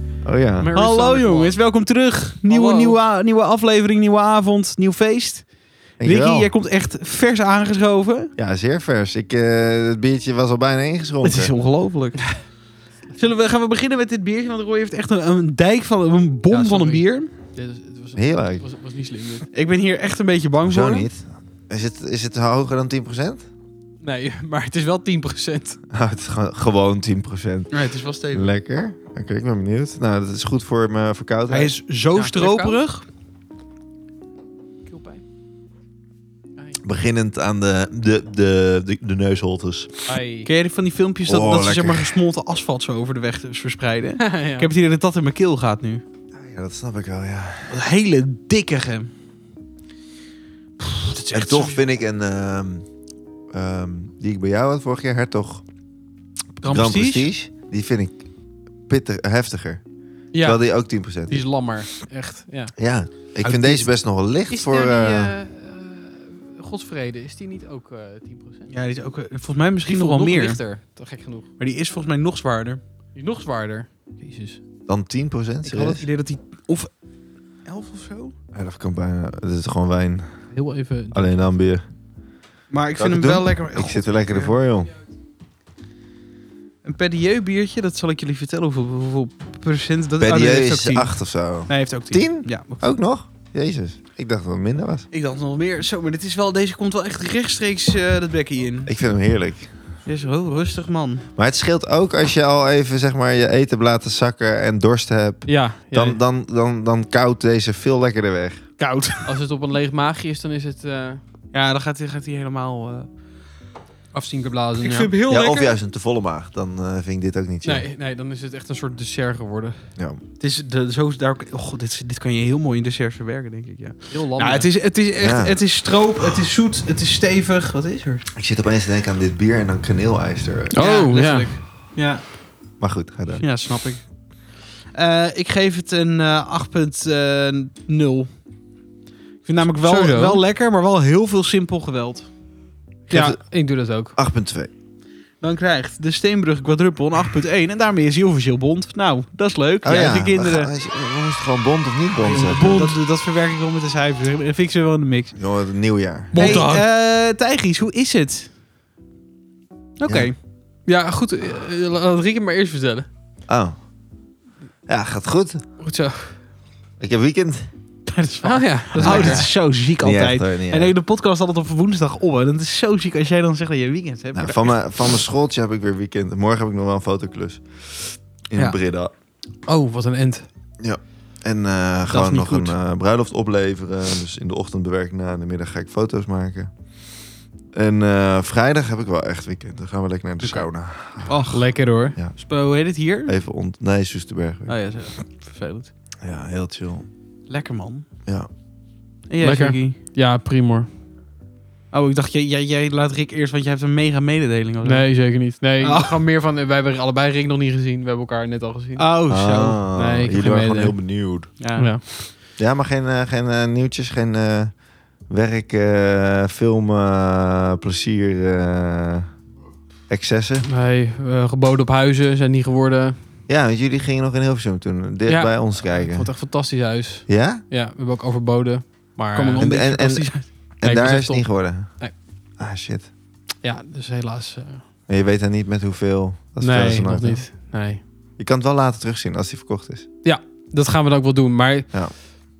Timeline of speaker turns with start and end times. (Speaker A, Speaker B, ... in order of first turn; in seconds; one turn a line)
Speaker A: 0.2-0.7
Speaker B: 0.6-1.6
Speaker C: 0.8-5.5
Speaker B: 2.5-3.0
Speaker A: 6.0-6.5
Speaker C: 6.0-8.3
Speaker A: 8.4-11.5
Speaker C: 11.2-12.4
Speaker C: 13.2-17.3
Speaker B: 16.5-19.5
Speaker A: 18.2-18.6
Speaker C: 19.5-21.1
Speaker A: 20.7-23.5
Speaker B: 24.0-25.8
Speaker A: 25.9-27.7
Speaker C: 27.7-28.5
Speaker A: 28.3-31.7
Speaker C: 31.5-33.1
Speaker B: 32.1-32.8
Speaker B: 34.9-35.2
Speaker A: 36.8-40.0
Speaker B: 40.1-40.5
Speaker C: 40.5-46.0
Speaker A: 41.3-42.2
Speaker B: 44.2-44.7
Speaker A: 46.4-47.8
Speaker C: 47.7-49.1
Speaker C: 50.8-51.8
Speaker A: 51.3-52.9
Speaker A: 53.5-55.6
Speaker C: 56.6-57.3
Speaker A: 56.6-58.2
Speaker A: 58.9-59.8
Speaker B: 60.3-62.7
Speaker A: 60.4-61.5
Speaker A: 62.8-65.3
Speaker C: 63.4-63.9
Speaker B: 64.5-68.7
Speaker C: 68.7-70.6
Speaker B: 69.9-71.5
Speaker C: 71.6-72.8
Speaker B: 73.2-74.6
Speaker A: 74.9-76.0
Speaker C: 75.6-76.9
Speaker C: 77.7-78.3
Speaker A: 78.5-80.2
Speaker B: 80.5-81.5
Speaker A: 81.1-81.8
Speaker C: 82.7-84.5
Speaker A: 83.0-84.9
Speaker C: 86.8-92.9
Speaker A: 90.2-95.1
Speaker C: 95.1-98.9
Speaker A: 98.9-99.7
Speaker C: 100.0-101.2
Speaker A: 101.4-108.6
Speaker B: 105.5-106.2
Speaker C: 108.8-109.3
Speaker B: 109.3-111.2
Speaker C: 111.5-113.1
Speaker B: 114.1-115.1
Speaker C: 114.8-115.7
Speaker A: 115.3-117.9
Speaker B: 117.6-119.9
Speaker C: 120.4-128.3
Speaker B: 124.1-124.7
Speaker A: 125.2-125.6
Speaker A: 128.4-130.8
Speaker B: 130.7-131.5
Speaker C: 130.8-132.2
Speaker A: 132.8-133.4
Speaker C: 133.3-134.0
Speaker C: 134.9-138.3
Speaker C: 139.4-142.3
Speaker B: 139.8-140.4
Speaker B: 143.1-144.2
Speaker A: 143.1-143.4
Speaker A: 144.2-144.7
Speaker C: 145.4-150.7
Speaker A: 149.8-153.0
Speaker C: 152.2-155.4
Speaker A: 155.3-156.7
Speaker B: 156.3-156.8
Speaker C: 156.3-158.5
Speaker C: 160.0-160.3
Speaker B: 160.9-163.1
Speaker A: 163.5-163.8
Speaker A: 164.9-165.6
Speaker B: 165.8-166.3
Speaker A: 167.0-167.7
Speaker C: 168.1-175.2
Speaker B: 168.4-169.4
Speaker A: 169.0-170.9
Speaker A: 174.3-179.1
Speaker B: 179.7-180.5
Speaker A: 180.8-186.7
Speaker C: 182.1-182.7
Speaker A: 187.7-191.4
Speaker C: 191.3-191.7
Speaker B: 191.5-192.2
Speaker C: 192.3-193.3
Speaker A: 193.3-194.7
Speaker C: 194.7-195.9
Speaker A: 196.2-197.1
Speaker C: 197.5-198.1
Speaker C: 199.3-200.0
Speaker B: 199.4-200.9
Speaker C: 201.9-205.1
Speaker B: 204.8-209.1
Speaker C: 205.8-206.2
Speaker C: 209.0-209.8
Speaker A: 209.3-211.5
Speaker B: 210.0-211.0
Speaker C: 211.6-211.9
Speaker B: 211.8-212.0
Speaker A: 212.6-214.7
Speaker A: 215.3-219.3
Speaker A: 220.1-220.7
Speaker B: 220.6-223.2
Speaker A: 223.5-226.3
Speaker B: 225.3-229.9
Speaker A: 227.3-227.6
Speaker C: 229.3-230.5
Speaker A: 229.6-231.9
Speaker B: 230.8-232.1
Speaker A: 232.6-233.1
Speaker B: 233.6-234.8
Speaker A: 235.1-237.4
Speaker B: 236.6-238.0
Speaker A: 238.4-240.1
Speaker B: 240.2-241.9